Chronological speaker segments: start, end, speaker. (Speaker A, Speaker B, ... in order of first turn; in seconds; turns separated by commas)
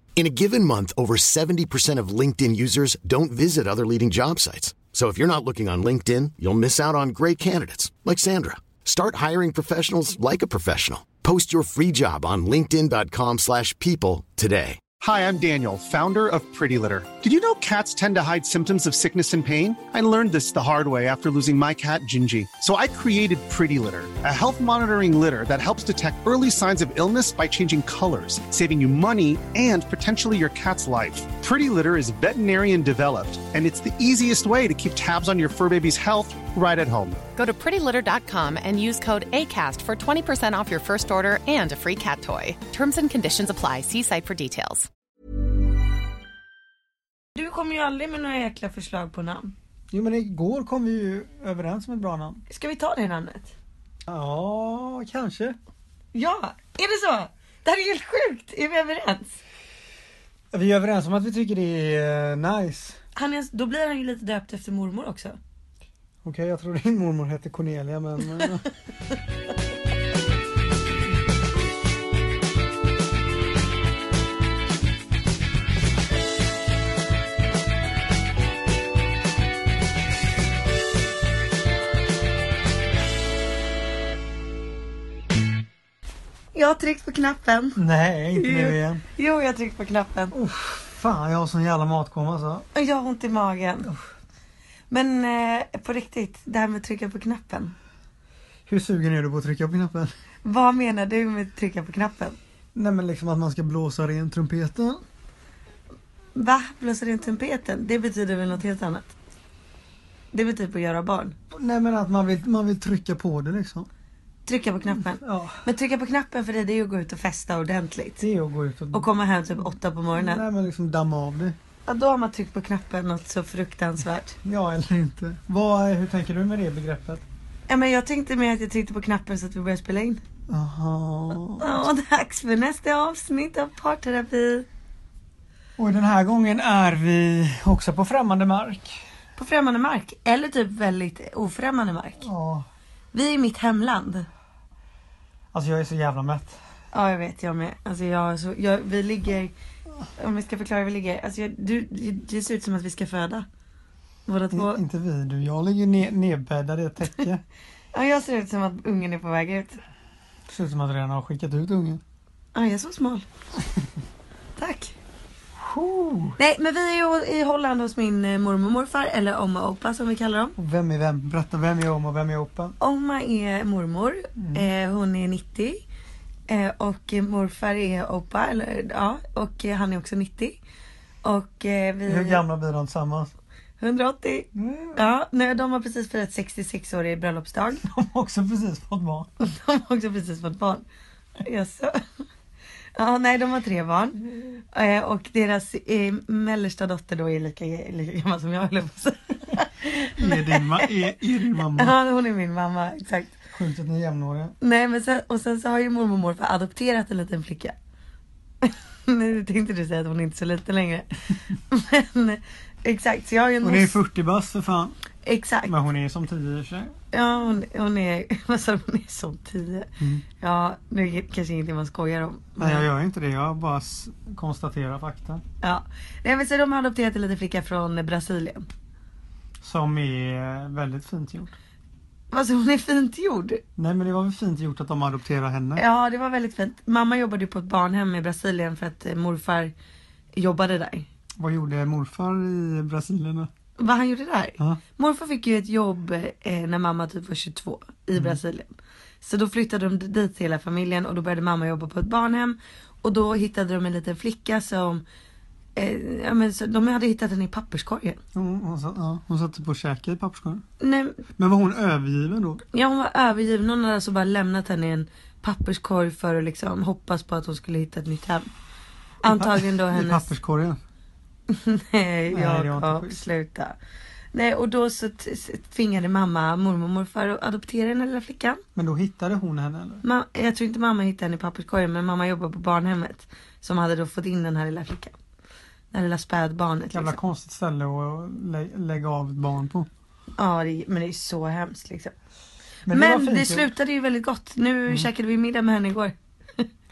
Speaker A: 0.1-14.9, Speaker B: 15.0-37.2, Speaker C: 37.4-44.9, Speaker D: 47.4-49.5, Speaker E: 49.9-52.4, Speaker D: 52.5-53.5, Speaker E: 54.1-55.6, Speaker D: 56.1-59.4, Speaker E: 60.5-63.0, Speaker D: 63.1-65.4, Speaker E: 66.2-68.7, Speaker D: 86.5-87.8, Speaker E: 87.8-89.0, Speaker D: 88.3-90.3, Speaker E: 90.3-92.7, Speaker D: 92.7-93.9, Speaker D: 94.9-97.7, Speaker E: 98.7-100.1, Speaker D: 100.4-102.4, Speaker E: 102.7-105.0, Speaker D: 106.3-109.1, Speaker D: 110.3-111.3, Speaker E: 111.5-113.9, Speaker D: 114.5-118.2, Speaker E: 115.2-115.6, Speaker E: 118.2-121.6, Speaker D: 118.9-120.4, Speaker D: 121.8-124.4, Speaker E: 124.4-127.2, Speaker D: 127.7-130.2, Speaker E: 130.5-131.8, Speaker D: 131.6-134.7, Speaker E: 135.8-139.0, Speaker D: 139.4-142.2, Speaker E: 142.2-142.7, Speaker D: 143.1-144.3, Speaker E: 145.5-146.6, Speaker D: 146.9-149.5, Speaker D: 150.2-153.4, Speaker D: 154.2-154.8, Speaker E: 154.5-157.4, Speaker D: 157.9-159.8, Speaker E: 160.5-162.0, Speaker D: 162.5-163.2, Speaker D: 164.6-164.9, Speaker E: 165.6-166.4, Speaker D: 166.4-170.6, Speaker E: 170.6-172.7, Speaker D: 172.8-175.8, Speaker E: 174.4-174.7, Speaker D: 176.5-180.6, Speaker D: 181.2-182.4, Speaker E: 182.1-183.3, Speaker D: 183.8-187.8, Speaker E: 184.5-185.1, Speaker E: 187.8-189.3, Speaker D: 189.4-190.8, Speaker D: 191.4-192.0, Speaker D: 193.0-203.3, Speaker E: 200.2-202.0, Speaker E: 203.5-204.5, Speaker D: 204.6-207.7, Speaker D: 208.6-211.1, Speaker D: 211.7-214.0, Speaker E: 213.6-214.9, Speaker D: 215.2-215.7, Speaker E: 215.7-216.9, Speaker D: 217.1-222.9, Speaker E: 222.6-225.4, Speaker D: 225.6-228.7, Speaker E: 229.6-231.6, Speaker D: 232.3-233.6, Speaker E: 233.8-235.8, Speaker D: 235.8-239.7, Speaker D: 240.3-241.1, Speaker E: 241.4-243.5, Speaker D: 243.8-248.7, Speaker D: 249.2-255.0, Speaker D: 255.8-258.2, Speaker E: 258.3-260.6, Speaker D: 260.8-261.2, Speaker E: 261.4-262.6, Speaker D: 262.7-268.5, Speaker D: 269.2-270.3, Speaker E: 269.2-270.8, Speaker D: 271.5-273.8, Speaker E: 272.3-273.2, Speaker D: 274.3-278.6, Speaker E: 278.8-280.0, Speaker D: 280.0-285.1, Speaker D: 285.9-287.1, Speaker E: 286.9-289.9, Speaker D: 290.4-292.1, Speaker E: 292.9-293.7, Speaker D: 292.9-296.7